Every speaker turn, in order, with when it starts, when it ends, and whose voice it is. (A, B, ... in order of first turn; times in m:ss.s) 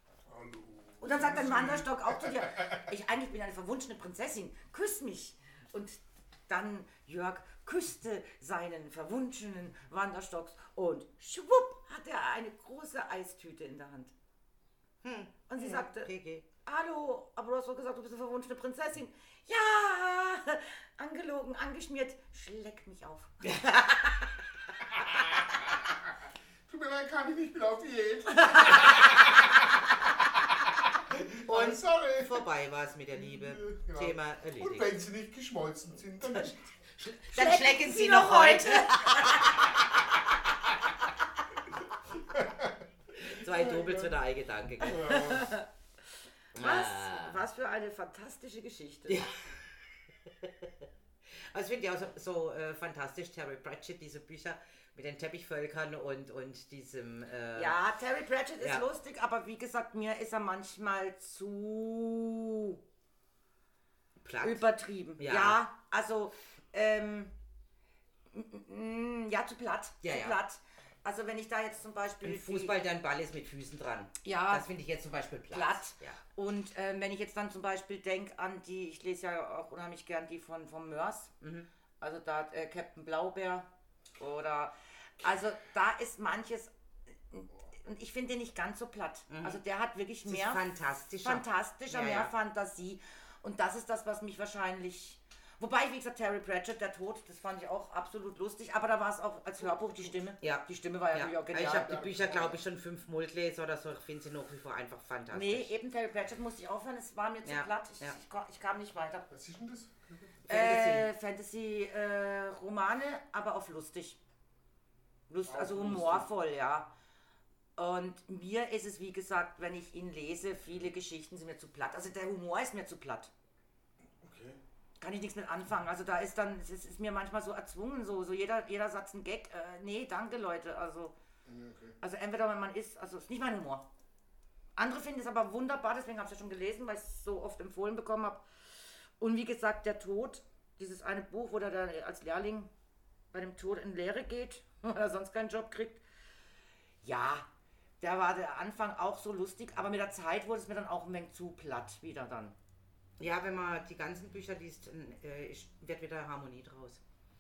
0:00.3-0:02.9 A
0:01.0-0:14.1 B
0:15.0-0:16.5 C
0:15.5-0:16.1 B
0:16.6-0:24.2 B
0:25.5-0:26.0 A
0:26.7-0:32.5 A
0:28.5-0:28.9 B
0:31.5-0:34.9 C
0:33.2-0:36.8 A
0:37.0-0:40.0 C
0:37.3-0:39.7 B
0:42.1-0:44.1 A
0:43.2-0:45.4 C
0:44.8-0:45.6 A
0:44.9-0:45.7 B
0:46.5-0:49.2 B
0:46.6-0:47.4 C
0:49.1-0:49.3 C
0:50.4-0:50.7 C
0:51.5-0:57.8 C
0:57.6-1:02.8 B
1:04.2-1:04.7 C
1:04.4-1:07.4 B
1:05.2-1:05.6 C
1:08.3-1:12.7 B
1:10.0-1:10.4 C
1:12.2-1:16.2 C
1:14.2-1:14.7 B
1:15.5-1:21.3 B
1:21.4-1:21.7 C
1:22.0-1:26.7 B
1:27.3-1:30.6 B
1:29.3-1:29.6 C
1:30.3-1:32.3 C
1:31.2-1:41.9 B
1:40.4-1:45.7 C
1:41.6-1:42.6 A
1:45.3-1:49.3 B
1:47.4-1:48.2 C
1:49.3-1:50.5 A
1:50.5-1:51.1 C
1:50.5-1:54.2 B
1:55.3-1:56.9 B
1:55.5-1:56.3 A
1:57.8-2:03.3 B
2:04.2-2:04.6 A
2:05.0-2:11.2 B
2:11.5-2:12.0 A
2:12.0-2:13.8 B
2:14.8-2:18.4 B
2:19.2-2:22.7 B
2:23.3-2:26.0 B
2:27.0-2:27.5 B
2:28.0-2:32.6 B
2:33.2-2:37.0 C